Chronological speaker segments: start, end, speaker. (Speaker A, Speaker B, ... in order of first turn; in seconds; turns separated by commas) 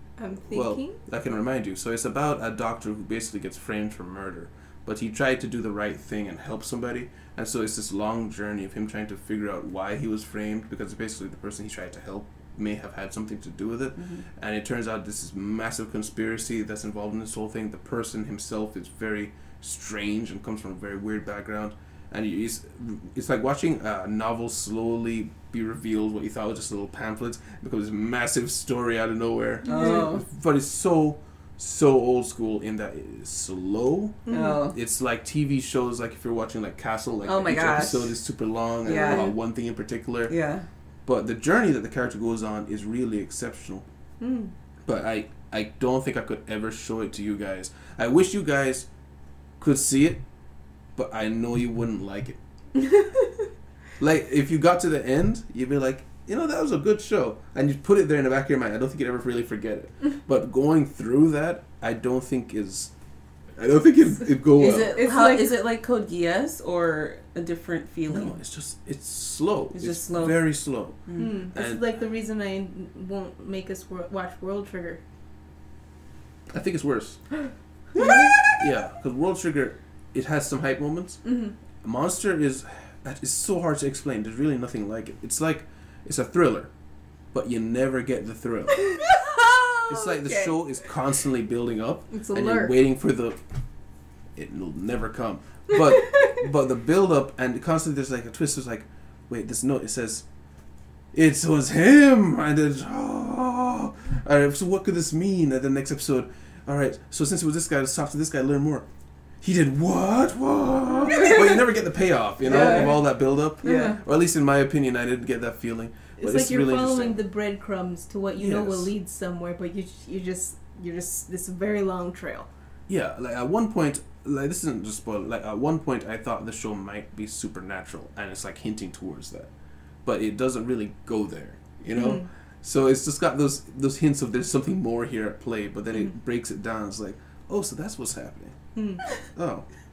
Speaker A: 0.2-1.0, Speaker B: 0.5-40.3, Speaker C: 14.0-14.2, Speaker A: 29.6-30.1, Speaker C: 29.6-30.2, Speaker A: 34.3-34.7, Speaker C: 34.3-34.8, Speaker C: 37.2-38.1, Speaker C: 38.9-39.3, Speaker A: 38.9-39.3, Speaker C: 40.3-40.7, Speaker B: 41.1-43.9, Speaker A: 44.2-44.5, Speaker B: 44.9-48.9, Speaker B: 49.6-50.2, Speaker B: 51.0-52.4, Speaker B: 54.0-62.9, Speaker B: 63.6-65.0, Speaker C: 64.5-68.4, Speaker A: 65.0-65.5, Speaker B: 68.1-71.8, Speaker C: 69.7-70.4, Speaker C: 71.1-71.3, Speaker A: 71.2-75.0, Speaker B: 76.5-77.2, Speaker A: 78.0-78.4, Speaker C: 78.0-78.5, Speaker B: 78.6-81.2, Speaker A: 81.2-81.5, Speaker B: 81.8-86.7, Speaker B: 87.3-89.0, Speaker C: 88.9-90.6, Speaker B: 89.9-93.4, Speaker A: 92.1-92.8, Speaker B: 94.4-100.2, Speaker B: 101.1-108.9, Speaker B: 109.4-117.2, Speaker A: 111.1-111.6, Speaker C: 112.5-113.0, Speaker A: 112.5-113.0, Speaker C: 113.6-114.0, Speaker A: 113.6-114.0, Speaker A: 116.2-122.5, Speaker B: 118.4-118.9, Speaker B: 122.9-129.5, Speaker B: 130.1-138.6, Speaker A: 131.9-132.3, Speaker A: 138.8-139.0, Speaker B: 139.3-139.7